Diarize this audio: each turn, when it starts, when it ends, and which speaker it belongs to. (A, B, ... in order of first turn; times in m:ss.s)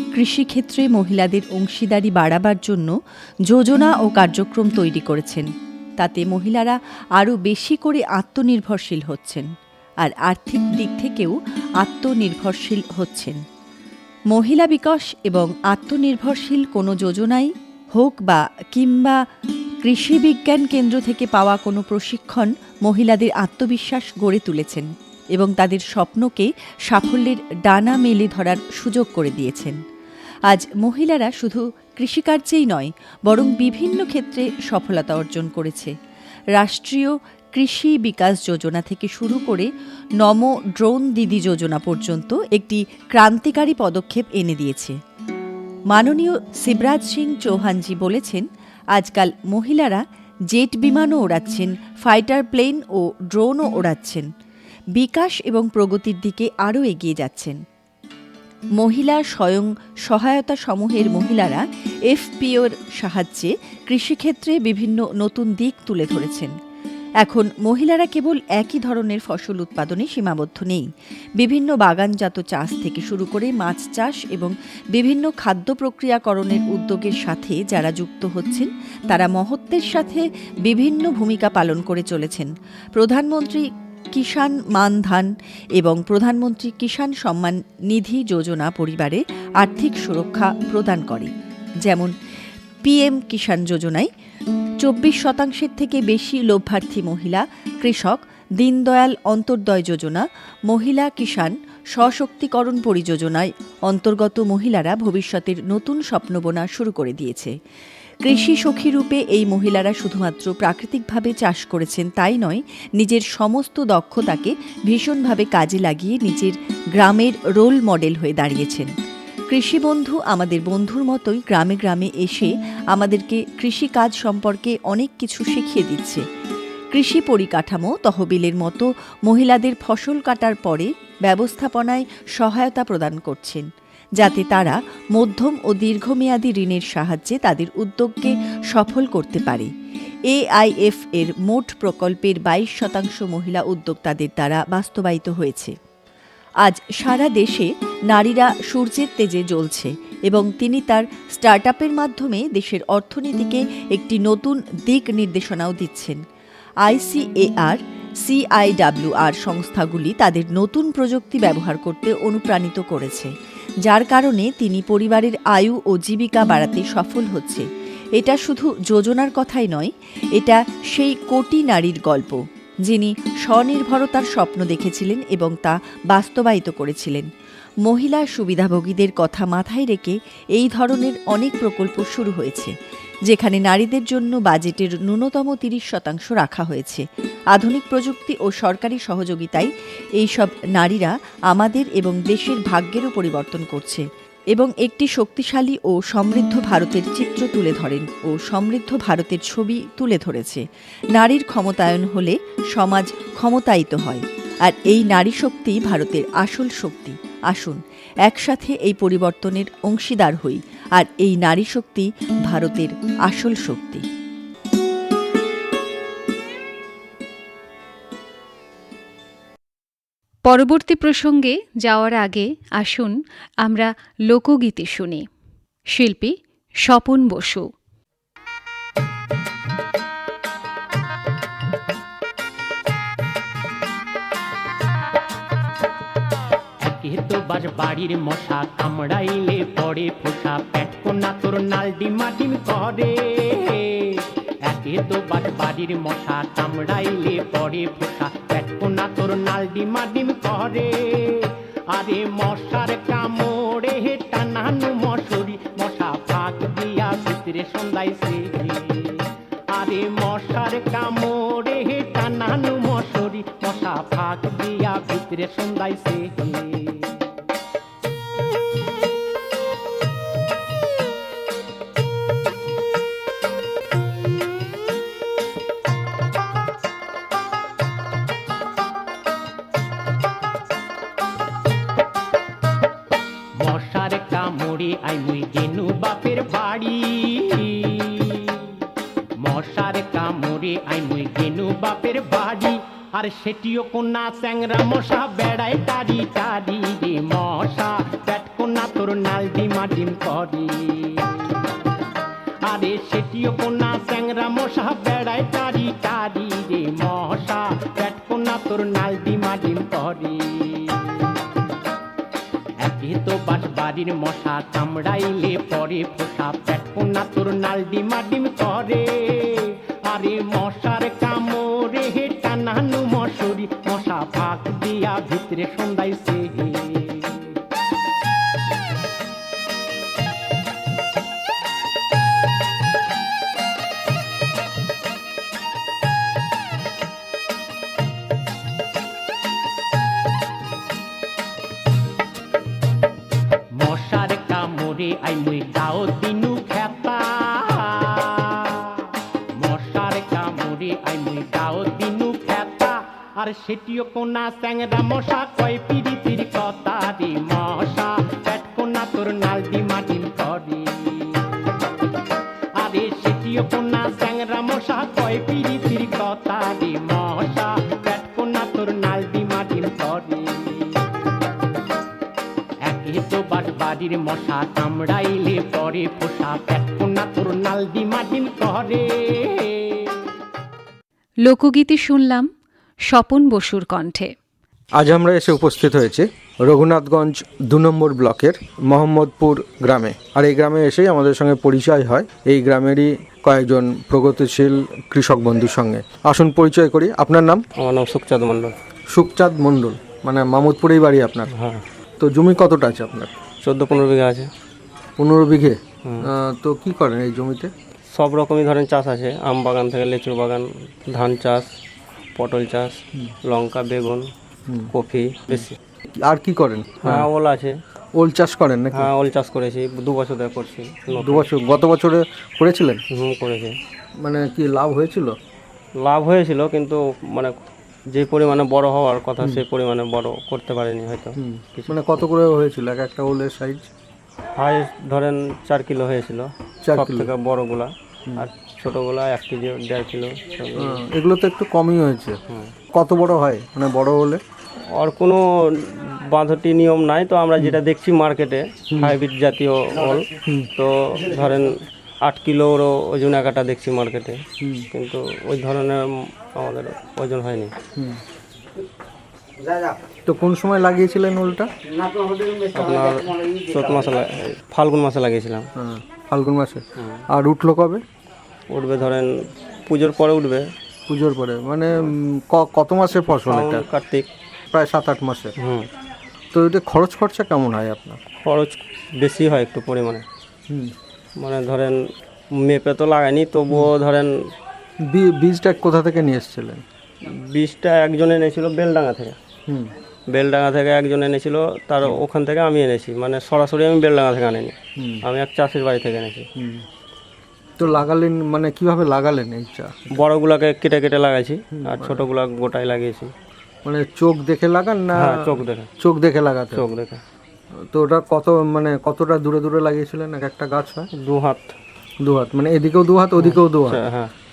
0:00.1-0:02.9 A
0:03.5-0:09.5 A
0:10.0-0:13.4 A
0:14.3-0:19.2 A
0:19.8-0:29.8 A
0:30.5-0:35.9 A
0:36.6-0:45.0 A
0:45.9-0:54.3 A
0:55.0-0:57.6 A
0:58.8-1:06.5 A
1:07.2-1:10.9 A
1:11.4-1:31.3 A
1:31.8-1:32.1 A
1:32.8-1:34.1 A
1:34.8-1:47.5 A
1:48.2-1:58.9 A
1:59.5-2:06.2 A
2:06.9-2:13.7 A
2:14.2-2:19.7 A
2:20.3-2:25.8 A
2:26.6-2:36.2 A
2:36.9-2:43.3 A
2:43.9-2:57.3 A
2:57.9-3:02.7 A
3:03.3-3:07.0 A
3:07.5-3:09.7 A
3:10.2-3:20.6 A
3:21.2-3:34.1 A
3:40.5-3:45.3 B
3:45.9-3:47.7 B
3:56.8-4:27.2 C
4:43.6-4:48.8 C
4:49.4-5:01.6 C
5:02.7-5:11.5 C
5:12.8-5:27.6 C
5:43.8-6:01.6 C
6:02.8-6:11.0 C
6:12.9-6:20.2 C
6:21.4-6:22.5 B
6:23.1-6:24.4 B
6:25.0-6:37.6 D
6:37.8-6:38.8 E
6:39.1-6:41.5 D
6:41.5-6:41.8 E
6:42.2-6:43.3 D
6:43.6-6:44.5 E
6:45.2-6:47.7 D
6:48.1-6:51.7 E
6:52.4-6:54.3 E
6:54.9-6:55.8 E
6:55.5-6:57.3 D
6:57.0-6:57.8 E
6:58.2-6:59.1 D
6:58.9-7:01.5 E
7:01.1-7:03.0 D
7:03.1-7:03.8 E
7:04.2-7:05.4 D
7:06.0-7:07.6 E
7:08.1-7:12.0 E
7:11.4-7:13.9 D
7:14.6-7:21.0 E
7:16.8-7:17.3 D
7:20.8-7:22.4 D
7:22.9-7:24.4 D
7:25.0-7:34.4 E
7:34.6-7:34.9 D
7:34.9-7:37.7 E
7:38.0-7:38.2 D
7:40.3-7:41.7 D
7:42.0-7:45.7 E
7:45.8-7:48.0 D
7:47.0-7:47.2 E
7:48.7-7:50.7 E
7:51.1-7:53.8 D
7:53.3-7:54.3 E
7:54.7-7:55.6 D
7:55.6-7:55.9 E
7:56.5-7:58.2 D
7:58.4-8:00.2 E
8:01.4-8:02.0 E
8:02.5-8:04.5 E
8:05.0-8:06.8 D
8:07.2-8:09.4 E
8:09.7-8:09.9 D
8:10.3-8:16.5 E
8:15.0-8:15.2 D
8:16.6-8:16.8 D
8:17.8-8:20.1 D
8:20.1-8:23.3 E
8:21.7-8:22.2 D
8:23.8-8:26.8 D
8:25.2-8:25.9 E
8:26.7-8:27.2 E
8:27.8-8:31.1 D
8:31.1-8:31.7 E
8:32.2-8:34.0 D
8:33.4-8:34.3 E